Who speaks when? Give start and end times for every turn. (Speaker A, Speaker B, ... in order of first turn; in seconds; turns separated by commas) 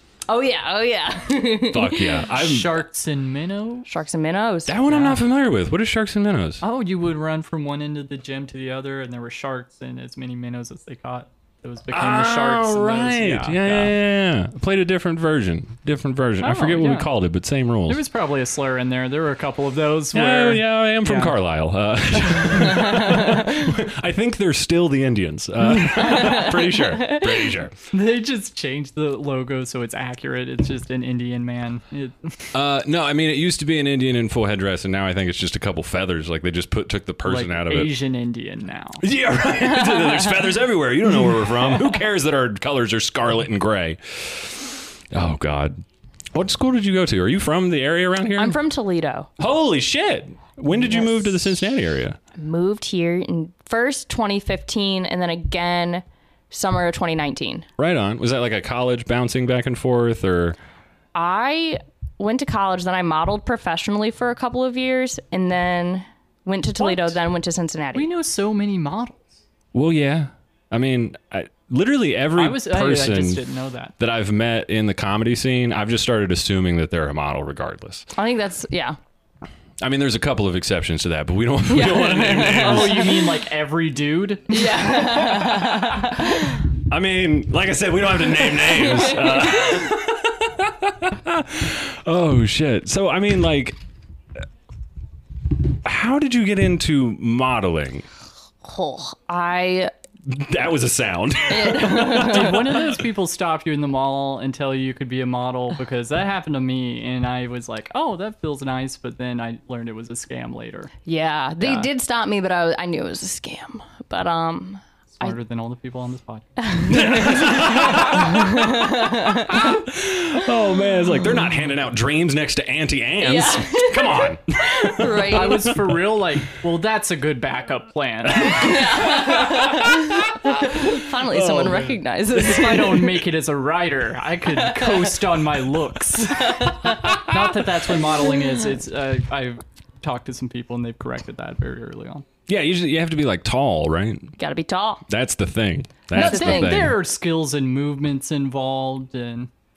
Speaker A: 0.3-2.3, Speaker B: 1.7-2.8, Speaker C: 2.3-3.9, Speaker A: 3.9-4.8, Speaker B: 4.7-6.6, Speaker C: 4.9-5.2, Speaker C: 6.6-13.9, Speaker B: 11.9-18.0, Speaker C: 16.4-17.1, Speaker C: 17.9-21.4, Speaker B: 20.1-27.7, Speaker C: 22.3-23.2, Speaker A: 22.8-23.7, Speaker A: 26.0-27.5, Speaker C: 27.9-32.5, Speaker B: 32.5-38.0, Speaker C: 37.2-39.0, Speaker B: 39.0-45.8, Speaker B: 46.3-48.6, Speaker A: 48.4-49.3, Speaker B: 49.4-52.2, Speaker A: 50.7-51.4, Speaker A: 52.4-57.7, Speaker B: 57.8-60.6, Speaker A: 61.1-68.1, Speaker C: 66.8-67.2, Speaker C: 67.9-69.4, Speaker B: 69.7-73.4, Speaker C: 72.4-73.9, Speaker B: 74.0-78.1, Speaker A: 78.2-79.0, Speaker B: 79.8-83.2, Speaker A: 81.7-83.2, Speaker C: 82.3-85.2, Speaker A: 84.5-86.6, Speaker B: 85.3-85.9, Speaker B: 86.9-93.8, Speaker A: 88.4-89.9, Speaker B: 95.8-98.1, Speaker A: 98.6-99.9, Speaker B: 100.2-102.9, Speaker A: 101.5-102.7, Speaker C: 102.1-110.9, Speaker A: 111.1-115.3, Speaker C: 111.6-111.9, Speaker C: 115.2-116.5, Speaker A: 116.6-119.8, Speaker B: 116.8-126.1, Speaker A: 123.2-125.7, Speaker C: 125.2-129.4, Speaker A: 128.4-133.2, Speaker B: 129.2-130.5, Speaker C: 131.3-142.3, Speaker A: 134.5-135.1, Speaker A: 136.3-137.3, Speaker B: 137.0-137.4, Speaker B: 142.5-144.3, Speaker A: 144.4-145.1, Speaker B: 145.1-147.0, Speaker C: 146.1-149.5, Speaker A: 146.1-146.8